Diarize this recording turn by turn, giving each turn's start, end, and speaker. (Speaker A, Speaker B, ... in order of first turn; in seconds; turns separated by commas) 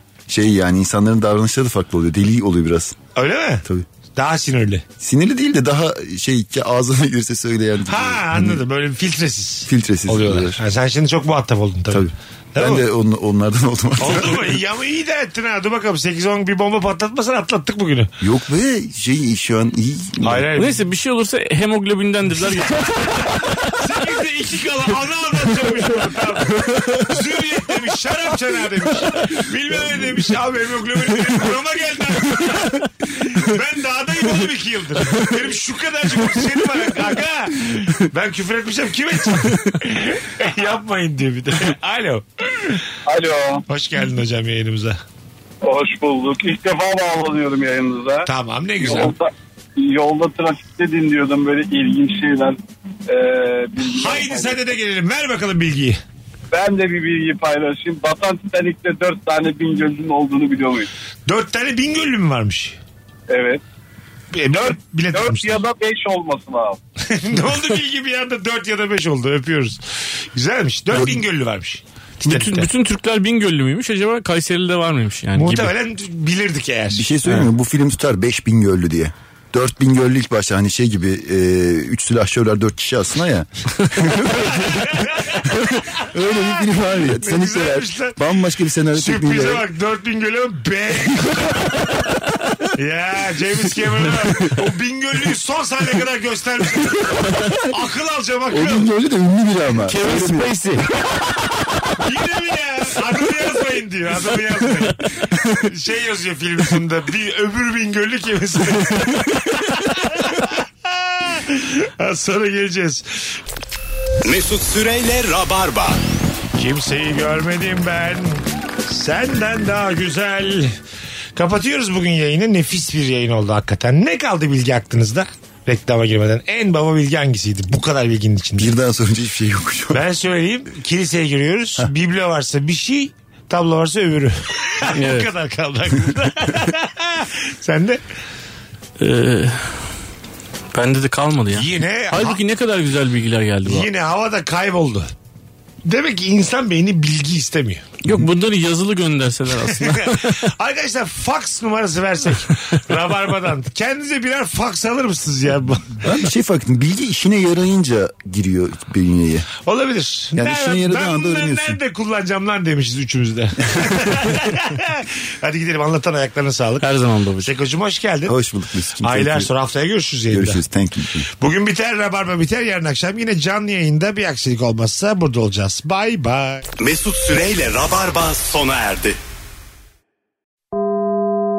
Speaker A: 0.3-3.0, Speaker B: 3.1-4.8, Speaker A: 5.0-8.6, Speaker B: 7.9-12.8, Speaker A: 9.7-10.6, Speaker A: 11.9-14.6, Speaker B: 14.0-18.1, Speaker A: 18.2-20.5, Speaker B: 20.2-20.8, Speaker C: 20.6-23.6, Speaker B: 23.1-42.8, Speaker D: 43.0-43.6, Speaker B: 43.7-45.0, Speaker D: 45.6-48.3, Speaker B: 48.3-49.1, Speaker D: 48.8-54.7, Speaker B: 53.9-56.0, Speaker D: 56.5-60.9, Speaker B: 61.3-62.8, Speaker D: 63.3-63.6, Speaker B: 64.3-65.6, Speaker D: 64.5-66.8, Speaker B: 67.1-69.8, Speaker B: 70.3-72.7, Speaker C: 72.2-75.7, Speaker B: 75.3-77.2, Speaker A: 76.9-85.0, Speaker B: 84.6-85.4, Speaker A: 86.0-89.6, Speaker B: 86.0-88.2, Speaker B: 88.9-91.7, Speaker B: 92.7-98.9, Speaker A: 98.5-100.5, Speaker C: 99.8-101.2, Speaker B: 102.0-105.0, Speaker B: 105.5-113.4, Speaker E: 114.2-116.0, Speaker B: 116.5-120.7, Speaker B: 121.3-128.7, Speaker A: 128.6-130.0, Speaker B: 129.9-138.0, Speaker C: 134.9-135.3, Speaker C: 139.0-139.8, Speaker C: 140.7-143.9, Speaker B: 141.5-142.4, Speaker B: 143.7-145.1, Speaker B: 145.8-147.8, Speaker C: 148.0-150.5, Speaker B: 149.7-156.0, Speaker A: 156.0-159.5, Speaker B: 159.6-166.8, Speaker A: 160.3-161.8, Speaker C: 166.8-167.5, Speaker B: 167.4-168.3, Speaker A: 168.2-169.5, Speaker B: 169.0-170.6, Speaker A: 170.3-171.3, Speaker B: 171.4-176.6, Speaker E: 176.8-179.2